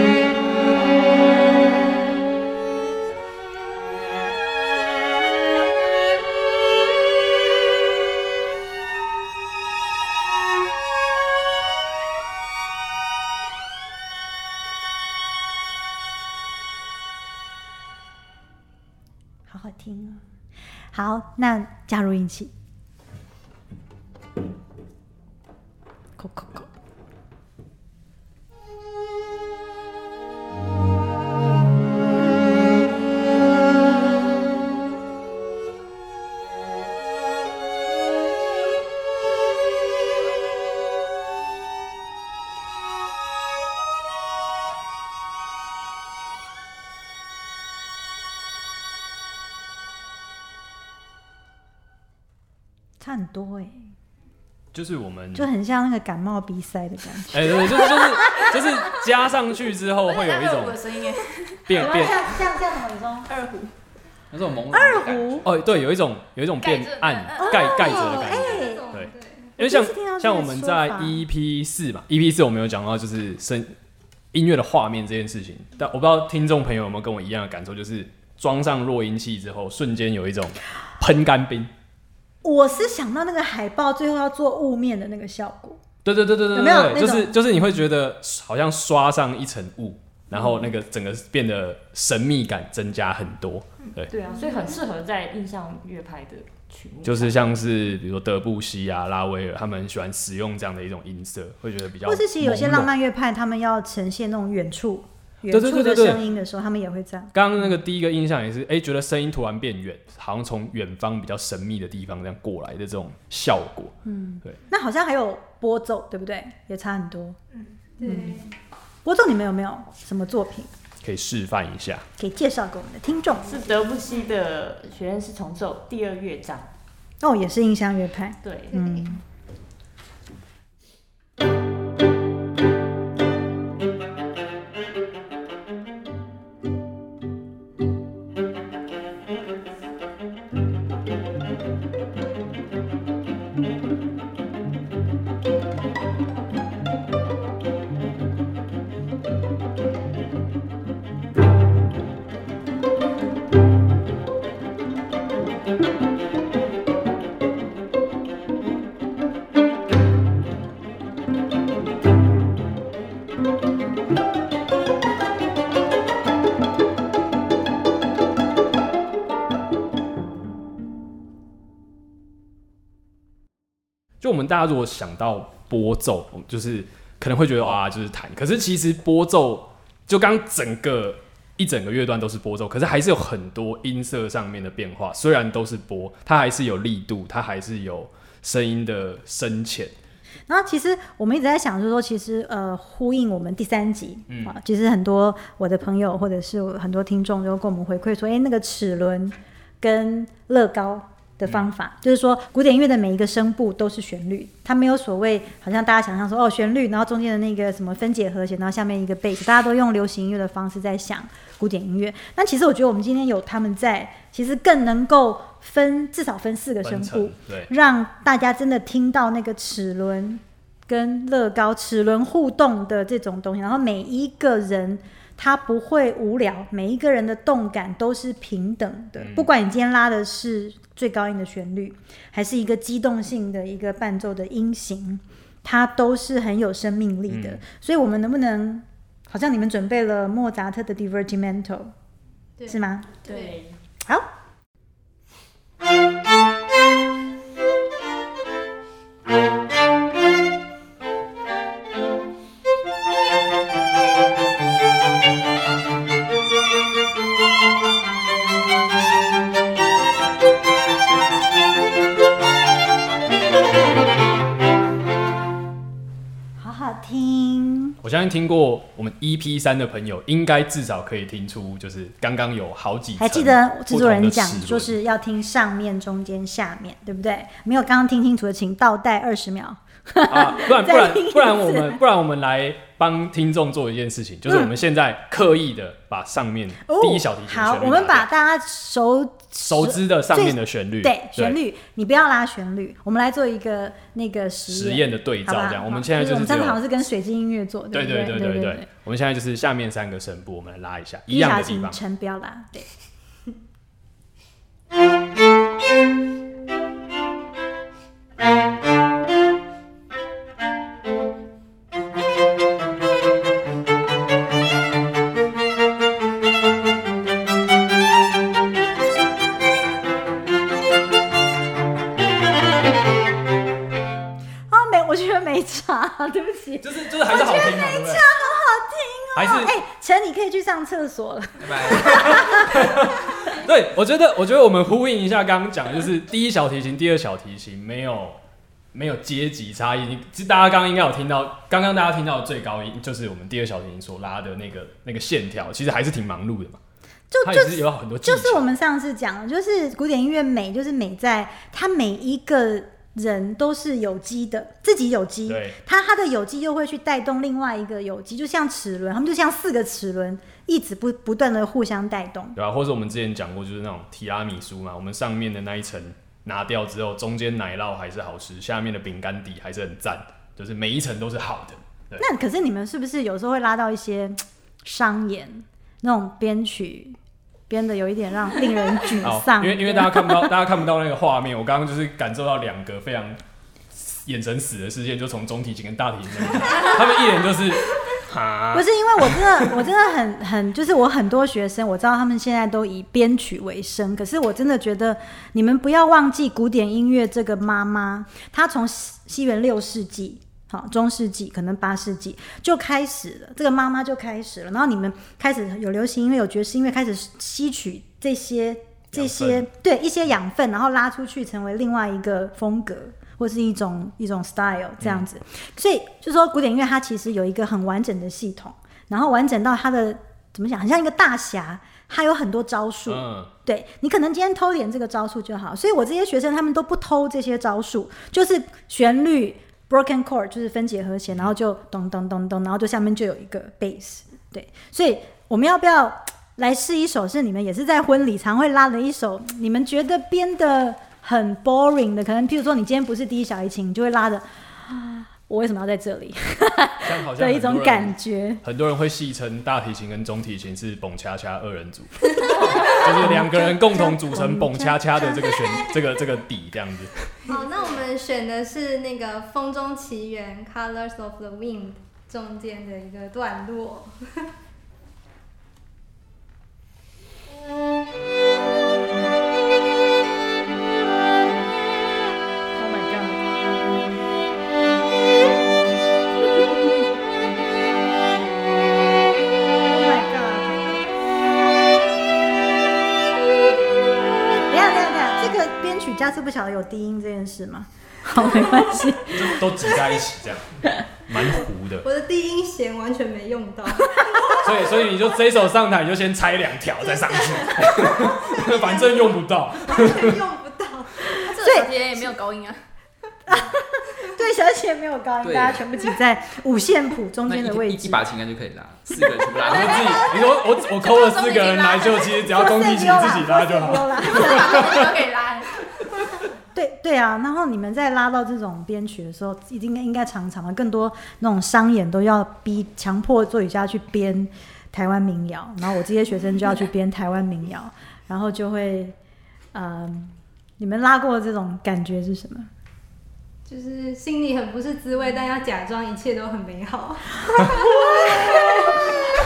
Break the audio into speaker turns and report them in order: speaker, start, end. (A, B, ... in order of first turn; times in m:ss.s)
0:19.5-0:20.2 A
0:20.9-0:22.5 A
0:26.2-0:26.7 A
0:53.0-0:53.9 A
0:54.7-0:55.5 B
0:55.3-0:58.5 A
0:57.3-1:00.8 B
1:00.1-1:01.8 C
1:01.6-1:02.3 B
1:01.7-1:03.3 A
1:03.3-1:03.7 C
1:04.3-1:05.5 D
1:04.7-1:05.4 A
1:05.4-1:13.7 B
1:06.6-1:07.6 C
1:07.4-1:08.8 A
1:07.8-1:09.5 E
1:09.6-1:11.2 A
1:14.3-1:21.7 B
1:22.4-1:25.8 A
1:26.0-1:34.1 B
1:26.5-1:27.3 A
1:34.1-1:37.4 F
1:37.0-1:42.9 B
1:42.0-1:47.3 A
1:45.5-1:46.2 B
1:47.3-1:53.9 B
1:54.0-1:57.4 A
1:58.0-1:58.5 E
1:58.0-1:58.4 A
1:59.0-2:00.7 A
2:01.0-2:02.0 B
2:02.2-2:03.5 A
2:03.3-2:06.6 F
2:07.2-2:09.2 A
2:08.4-2:08.8 F
2:54.2-3:09.9 B
3:10.5-4:01.9 A
3:36.8-3:37.7 B
3:49.2-3:49.5 B
3:57.3-3:57.6 B
4:02.6-4:03.6 E
4:02.7-4:03.1 A
4:03.2-4:03.7 F
4:26.6-4:28.0 A
4:28.0-4:34.9 B
4:33.2-4:42.0 A
4:40.3-4:48.3 B
4:44.5-4:44.7 A
4:46.8-4:58.8 A
4:49.6-4:51.6 B
4:54.7-4:56.8 B
4:57.9-5:02.0 B
5:01.3-5:02.9 A
5:24.7-5:33.1 A
5:26.8-5:28.2 B
5:29.4-5:29.7 B
5:31.6-5:32.7 D
5:32.0-5:38.4 B
5:38.9-5:46.8 B
5:47.3-6:02.6 A
5:47.4-5:48.6 B
5:55.5-5:55.8 B
6:02.6-6:12.2 B
6:12.2-6:17.2 A
6:17.7-6:20.5 A
6:19.2-6:23.4 B
6:23.9-6:29.7 B
6:28.7-7:28.6 A
6:49.1-6:49.7 B
7:03.1-7:03.5 B
7:27.0-7:37.5 B
7:32.6-7:35.5 A
7:37.5-7:44.5 E
7:52.7-7:53.4 A
7:59.8-8:01.1 A
8:04.7-8:09.9 A
8:09.3-8:12.0 B
8:12.0-8:15.0 E
8:14.6-8:20.4 B
8:17.3-8:21.2 E
8:21.4-8:22.3 A
8:21.5-8:22.8 C
8:23.5-8:28.2 A
8:25.4-8:25.8 D
8:27.5-8:30.3 D
8:29.6-8:35.1 B
8:31.0-8:32.3 C
8:32.4-8:35.1 A
8:34.4-8:35.7 C
8:36.7-8:49.2 A
8:49.7-8:52.7 A
8:53.6-8:59.2 E
8:57.5-8:59.0 A